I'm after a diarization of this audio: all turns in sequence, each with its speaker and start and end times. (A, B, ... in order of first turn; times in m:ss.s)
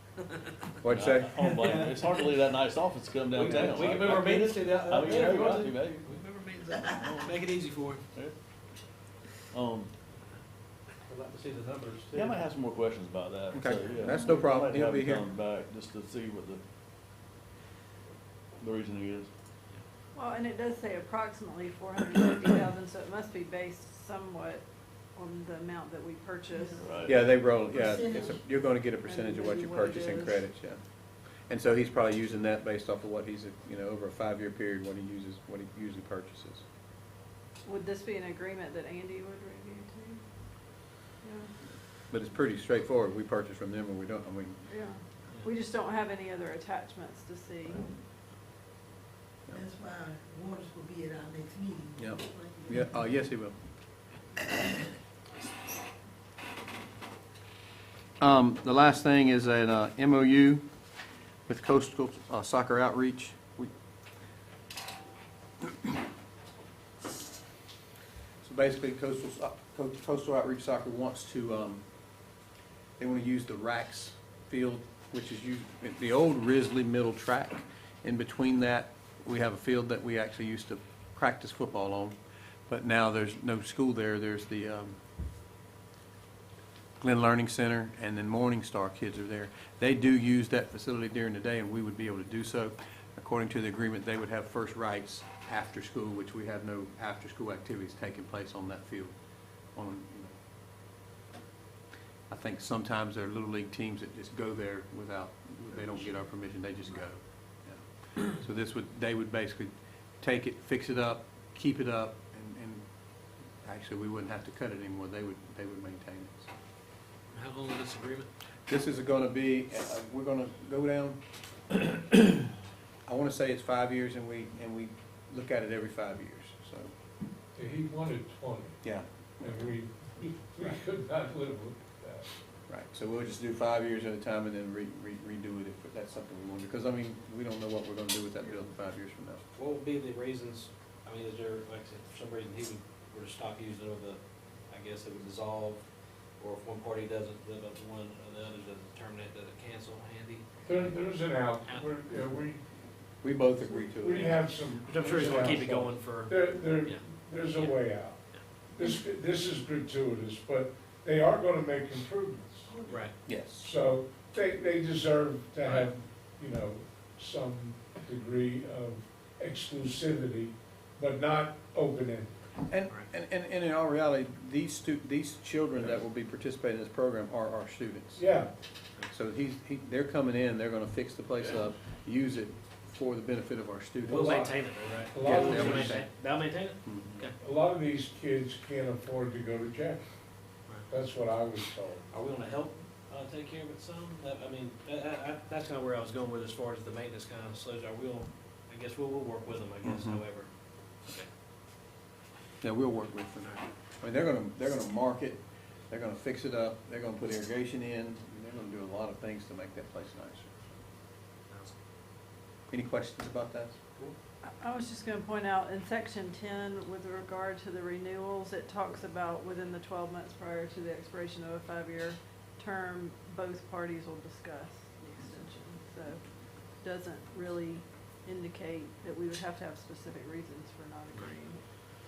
0:00.8-0:01.4 A
0:00.8-0:06.2 B
0:01.4-0:02.2 C
0:03.3-0:05.7 C
0:03.5-0:04.0 D
0:04.9-0:08.0 D
0:07.0-0:07.3 B
0:09.5-0:09.9 B
0:11.1-0:12.4 C
0:12.1-0:16.6 B
0:13.5-0:15.2 A
0:18.6-0:19.3 B
0:20.1-0:26.8 E
0:26.5-0:30.0 F
0:26.8-0:27.2 B
0:27.0-0:30.8 A
0:29.1-0:30.3 E
0:31.5-0:36.6 A
0:37.6-0:40.2 E
0:41.2-0:41.5 E
0:42.1-0:44.6 A
0:44.7-0:47.9 E
0:49.5-0:53.1 F
0:52.0-0:53.6 A
0:58.2-1:00.6 A
1:01.5-1:03.7 A
1:08.4-1:11.8 A
1:13.0-1:22.2 A
1:22.7-1:25.0 A
1:27.0-1:39.1 A
1:39.7-1:40.4 A
1:42.3-1:52.8 A
1:45.7-1:47.0 F
1:53.6-1:56.5 A
1:57.3-1:58.3 D
1:58.7-2:01.2 A
2:03.0-2:06.9 A
2:07.6-2:08.8 G
2:08.8-2:09.7 A
2:09.4-2:12.3 G
2:12.7-2:19.4 A
2:19.5-2:25.8 D
2:26.4-2:31.0 D
2:30.6-2:32.6 G
2:33.2-2:34.4 A
2:33.8-2:38.2 G
2:34.8-2:37.0 D
2:37.6-2:38.4 D
2:38.7-2:42.8 G
2:42.7-2:43.2 F
2:42.9-2:43.1 D
2:43.2-2:43.7 A
2:43.5-2:52.4 G
2:52.7-2:58.2 A
2:58.2-2:58.5 G
2:59.1-3:04.5 A
3:04.0-3:07.3 D
3:04.1-3:06.0 G
3:05.2-3:06.1 A
3:06.8-3:07.2 A
3:07.4-3:10.0 G
3:10.9-3:12.0 G
3:12.1-3:20.5 D
3:19.8-3:20.2 A
3:21.0-3:21.3 D
3:22.6-3:30.8 A
3:31.5-3:31.7 D
3:32.7-3:34.0 A
3:34.4-3:51.6 E